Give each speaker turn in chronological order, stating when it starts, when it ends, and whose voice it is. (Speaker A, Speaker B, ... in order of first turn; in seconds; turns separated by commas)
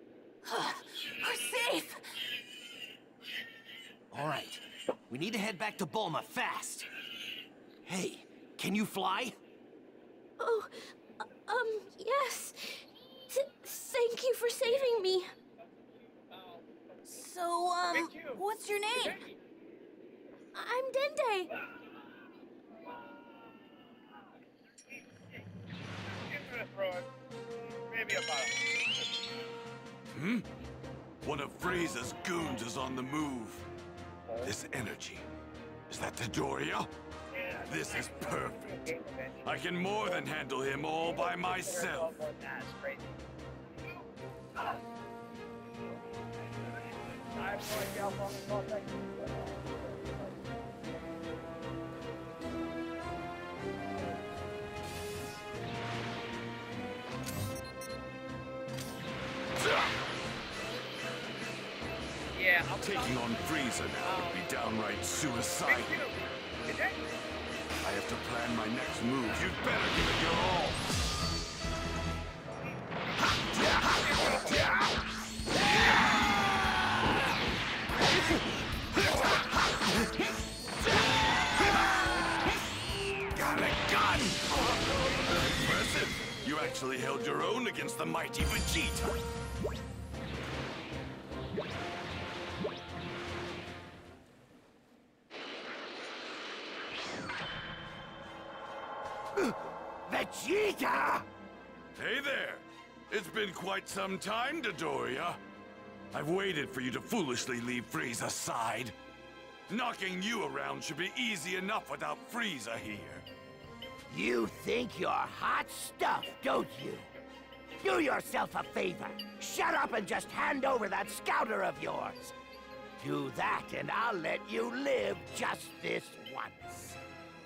Speaker A: 0.5-2.0, Speaker B: 4.1-6.9, Speaker B: 7.9-9.3, Speaker C: 10.4-10.8, Speaker C: 11.5-15.3, Speaker A: 17.1-19.2, Speaker D: 17.9-19.2, Speaker C: 20.5-21.5, Speaker D: 26.2-27.1, Speaker D: 27.9-29.3, Speaker E: 30.1-30.5, Speaker E: 31.2-33.7, Speaker E: 34.4-35.3, Speaker E: 35.9-36.9, Speaker D: 37.3-39.5, Speaker E: 37.7-38.9, Speaker E: 39.4-42.2, Speaker D: 41.0-43.2, Speaker D: 47.1-50.1, Speaker D: 62.4-63.4, Speaker E: 62.8-66.0, Speaker D: 64.0-64.4, Speaker D: 65.7-67.1, Speaker E: 67.8-70.8, Speaker E: 73.7-74.8, Speaker D: 73.8-74.8, Speaker E: 83.3-89.2, Speaker F: 99.3-101.3, Speaker E: 102.0-105.4, Speaker E: 106.1-109.0, Speaker E: 109.7-113.2, Speaker F: 114.1-117.1, Speaker F: 117.8-122.3, Speaker F: 123.0-127.0